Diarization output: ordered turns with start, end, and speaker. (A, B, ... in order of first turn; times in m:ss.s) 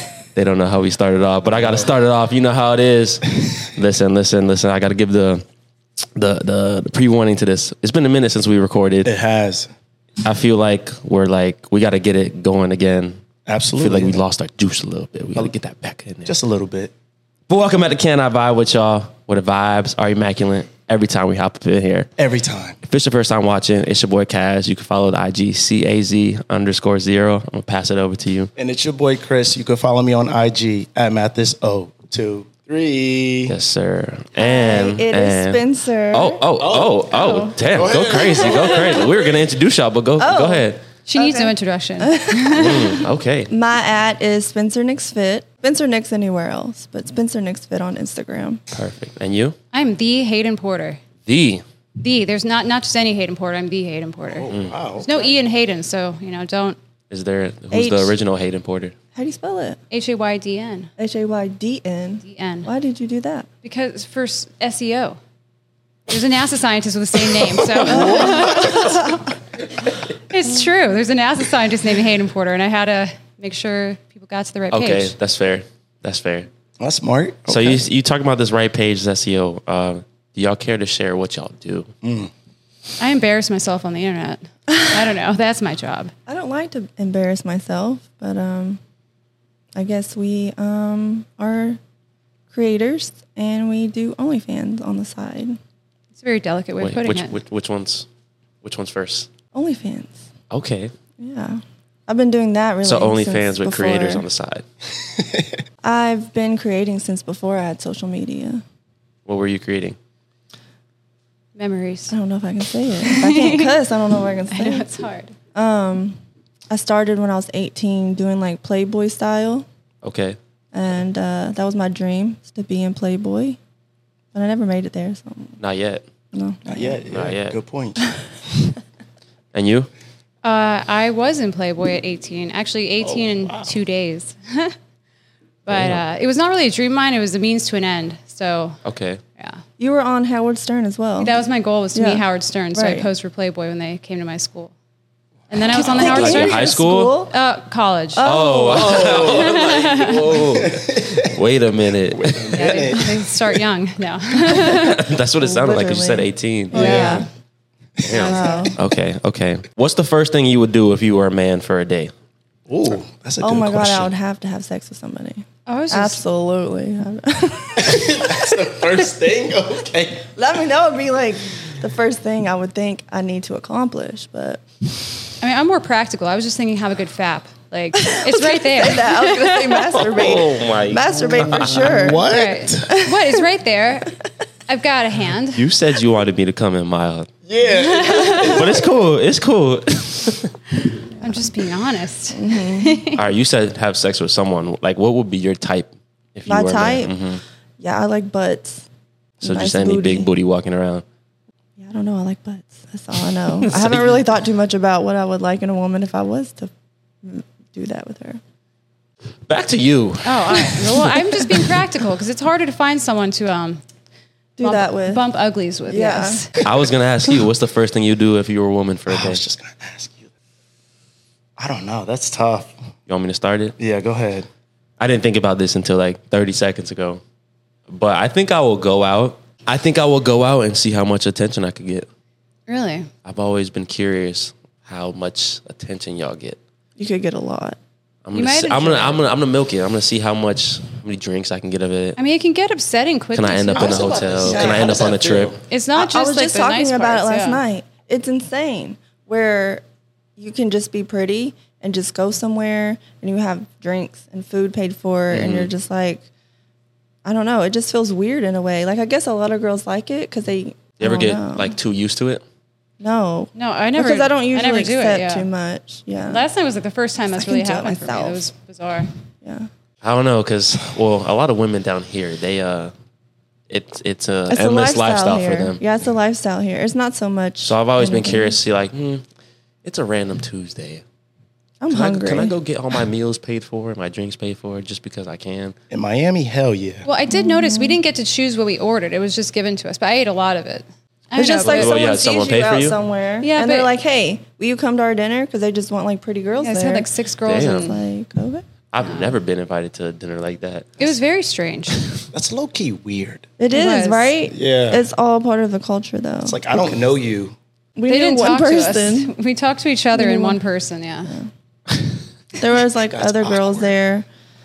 0:00.3-0:05.4 A
0:01.5-0:01.9 B
0:06.2-0:09.1 A
0:09.0-0:09.7 B
0:10.2-0:13.2 A
0:13.5-0:14.2 B
0:13.8-0:16.3 A
0:16.2-0:16.9 B
0:17.5-0:22.1 A
0:22.2-0:22.8 B
0:22.8-0:28.5 A
0:28.6-0:33.6 B
0:33.5-0:40.8 A
0:34.4-0:36.4 C
0:36.6-0:39.2 B
0:37.1-0:37.5 D
0:40.2-0:48.6 C
0:41.1-0:42.9 D
0:42.5-0:43.5 A
0:48.7-0:49.6 A
0:49.7-0:51.0 D
0:51.3-0:51.6 A
0:52.0-0:56.8 D
0:54.3-0:55.2 B
0:54.5-0:54.8 A
0:57.1-0:59.0 A
0:57.7-0:58.2 C
0:59.1-0:59.8 C
0:59.9-1:00.9 D
1:01.0-1:03.5 C
1:02.2-1:02.7 D
1:03.6-1:05.2 D
1:06.1-1:09.2 D
1:07.9-1:08.8 C
1:10.1-1:15.1 D
1:14.7-1:16.5 A
1:16.8-1:17.9 B
1:17.5-1:21.9 A
1:22.0-1:22.3 B
1:23.0-1:26.1 D
1:26.3-1:28.8 C
1:29.8-1:31.8 C
1:32.5-1:35.6 C
1:36.2-1:37.4 D
1:36.8-1:38.1 A
1:38.6-1:39.3 A
1:39.5-1:40.2 C
1:40.5-1:40.9 A
1:41.2-1:44.2 C
1:42.8-1:44.6 A
1:45.1-1:45.6 B
1:45.8-1:48.6 C
1:49.3-1:50.0 A
1:51.6-1:52.2 D
1:52.1-1:54.9 C
1:53.0-1:53.7 D
1:54.5-1:55.4 D
1:55.6-1:56.2 C
1:56.7-1:59.7 C
2:00.0-2:00.4 A
2:00.7-2:03.6 C
2:04.3-2:05.6 C
2:05.6-2:06.0 A
2:06.3-2:07.0 C
2:06.7-2:08.2 B
2:07.1-2:07.6 A
2:09.5-2:09.9 A
2:10.4-2:14.8 D
2:13.0-2:13.8 B
2:15.7-2:18.8 D
2:15.7-2:16.0 A
2:18.8-2:19.2 A
2:19.4-2:19.6 D
2:19.8-2:21.3 C
2:21.2-2:24.7 D
2:21.9-2:23.1 C
2:25.5-2:26.8 D
2:25.7-2:27.3 C
2:25.8-2:27.1 A
2:27.3-2:28.4 D
2:28.1-2:29.0 C
2:28.2-2:32.8 A
2:28.7-2:31.3 B
2:29.2-2:30.4 D
2:32.1-2:33.6 B
2:32.5-2:35.1 D
2:34.6-2:37.2 A
2:35.4-2:37.3 C
2:36.7-2:37.2 B
2:38.0-2:38.3 B
2:38.0-2:42.1 A
2:38.1-2:38.6 D
2:38.1-2:38.8 C
2:42.7-2:44.1 B
2:43.4-2:48.6 C
2:45.7-2:46.2 D
2:47.8-2:50.3 B
2:50.4-2:54.6 C
2:55.4-3:00.0 D
2:58.0-3:02.3 C
3:00.0-3:02.1 A
3:01.4-3:02.9 B
3:02.3-3:04.2 D
3:02.8-3:03.4 C
3:04.7-3:05.6 D
3:05.5-3:07.3 A
3:07.4-3:08.9 B
3:07.8-3:08.6 D
3:08.2-3:10.5 A
3:11.2-3:13.2 D
3:12.3-3:13.0 C
3:13.1-3:17.4 A
3:16.5-3:17.1 C
3:17.8-3:18.8 C
3:19.4-3:20.3 C
3:19.4-3:21.0 A
3:21.8-3:26.7 C
3:23.6-3:24.2 A
3:27.2-3:28.4 C
3:29.5-3:31.6 A
3:30.2-3:33.8 D
3:34.6-3:35.2 C
3:34.6-3:36.5 D
3:35.9-3:36.4 C
3:36.6-3:39.4 A
3:39.1-3:40.3 B
3:41.6-3:42.7 B
3:43.1-3:43.8 A
3:43.8-3:44.5 B
3:45.0-3:47.2 A
3:47.9-3:52.1 A
3:52.7-3:53.1 D
3:53.2-3:56.6 A
3:57.0-3:57.8 C
3:58.2-4:02.2 A
3:58.3-3:59.2 D
4:02.2-4:04.3 D
4:03.3-4:05.6 A
4:03.8-4:05.5 B
4:04.5-4:04.8 C
4:05.7-4:07.6 D
4:05.9-4:09.8 C
4:10.4-4:16.2 C
4:15.3-4:15.7 A
4:17.2-4:21.8 C
4:21.0-4:22.4 A
4:23.0-4:26.4 C
4:23.6-4:25.5 D
4:26.2-4:29.1 D
4:27.3-4:28.4 C
4:29.4-4:29.7 C
4:30.0-4:32.9 A
4:33.7-4:35.8 A
4:34.5-4:38.6 C
4:37.6-4:39.2 A
4:39.8-4:41.0 A
4:41.8-4:42.6 C
4:41.9-4:45.8 A
4:45.9-4:47.1 B
4:47.1-4:52.1 D
4:47.3-4:48.0 C
4:51.4-4:57.1 C
4:51.6-4:53.0 A
4:53.4-4:53.9 D
4:56.6-4:58.0 D
4:57.4-4:58.0 A
4:57.7-4:58.6 C
4:58.9-5:01.1 A
4:59.0-4:59.4 D
5:01.0-5:02.0 D
5:02.3-5:03.5 B
5:03.6-5:06.6 C
5:03.7-5:04.3 D
5:04.5-5:05.0 B
5:06.4-5:07.6 B
5:08.0-5:09.3 C
5:08.1-5:11.3 D
5:10.1-5:10.6 C
5:12.6-5:14.2 C
5:13.1-5:13.9 B